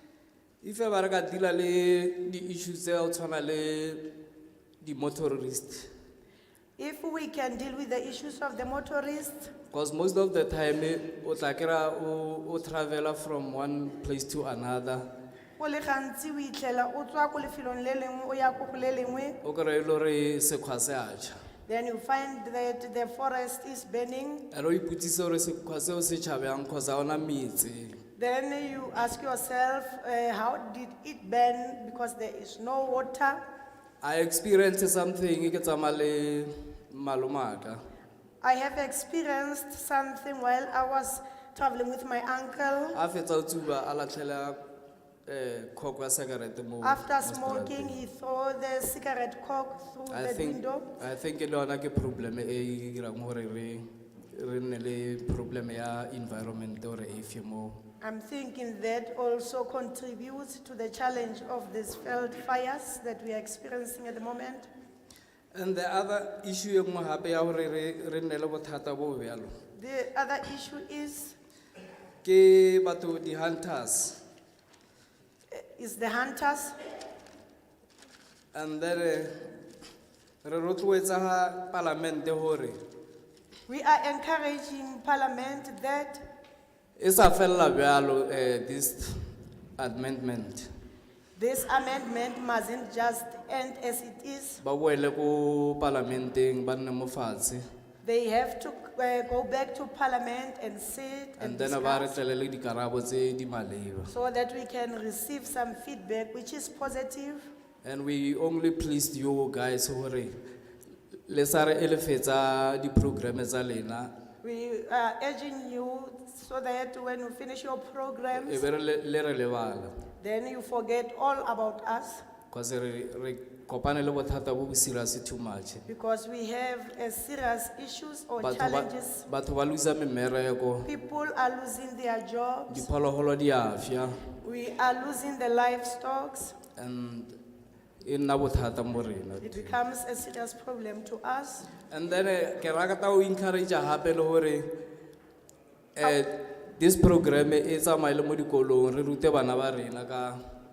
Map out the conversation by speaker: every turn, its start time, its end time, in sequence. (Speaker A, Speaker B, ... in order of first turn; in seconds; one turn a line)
Speaker A: 0.6-4.1
Speaker A: 4.8-5.9
Speaker B: 6.8-9.5
Speaker A: 9.7-15.1
Speaker B: 15.6-19.4
Speaker A: 19.4-21.4
Speaker B: 21.7-24.4
Speaker A: 24.5-28.0
Speaker B: 28.2-33.4
Speaker A: 34.0-37.8
Speaker B: 38.4-43.0
Speaker A: 42.9-44.6
Speaker A: 45.3-48.0
Speaker B: 46.8-50.9
Speaker A: 50.1-57.8
Speaker B: 58.0-64.7
Speaker A: 65.5-69.5
Speaker B: 69.8-71.4
Speaker A: 72.2-74.2
Speaker B: 75.5-76.8
Speaker A: 78.5-79.3
Speaker A: 80.4-82.8
Speaker B: 83.7-86.2
Speaker A: 87.0-90.7
Speaker B: 91.4-94.6
Speaker A: 94.6-97.6
Speaker B: 98.0-102.2
Speaker A: 101.4-104.1
Speaker B: 104.1-107.5
Speaker A: 107.8-110.4
Speaker A: 111.3-114.1
Speaker B: 114.4-118.6
Speaker A: 118.4-119.9
Speaker B: 120.2-122.2
Speaker A: 122.5-125.8
Speaker B: 125.9-129.3
Speaker A: 128.4-130.9
Speaker B: 130.8-132.9
Speaker A: 132.7-134.2
Speaker B: 134.4-136.6
Speaker A: 136.8-137.4
Speaker A: 138.0-139.7
Speaker B: 139.4-141.7
Speaker A: 141.9-144.7
Speaker A: 146.0-150.4